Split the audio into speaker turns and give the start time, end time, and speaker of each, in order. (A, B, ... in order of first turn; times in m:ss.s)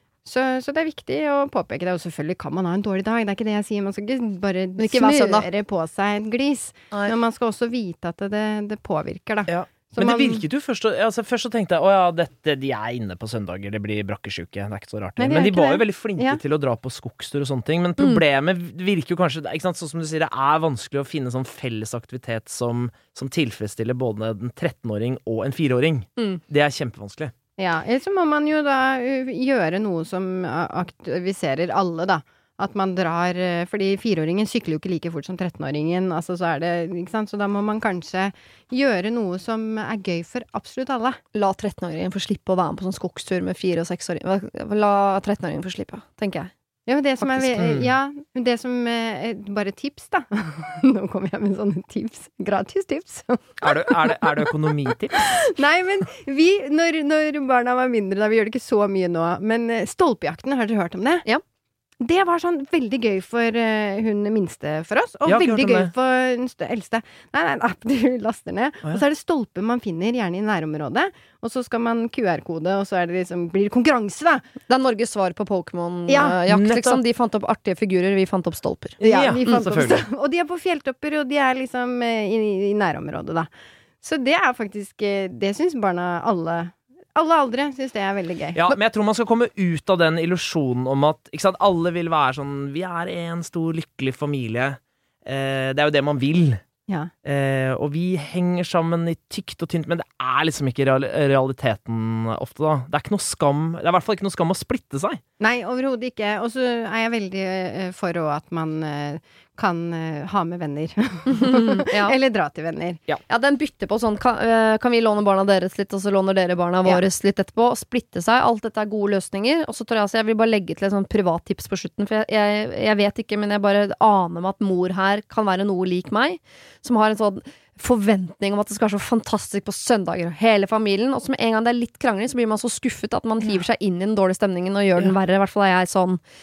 0:00.2-0:10.4 A
0:04.8-0:05.5 B
0:09.5-0:27.3 C
0:15.2-0:16.4 A
0:27.6-0:41.2 A
0:41.3-0:46.5 B
0:46.9-0:54.5 A
0:47.5-0:47.9 C
0:53.6-0:55.4 C
0:55.1-1:01.2 A
1:02.0-1:14.5 A
1:05.2-1:05.9 C
1:14.7-1:19.6 B
1:16.1-1:16.4 A
1:16.5-1:17.0 C
1:19.0-1:20.0 C
1:19.0-1:23.5 A
1:24.0-1:28.7 A
1:28.5-1:36.6 C
1:37.2-1:45.2 C
1:45.4-1:53.0 A
1:51.3-1:52.2 B
1:53.3-2:16.2 B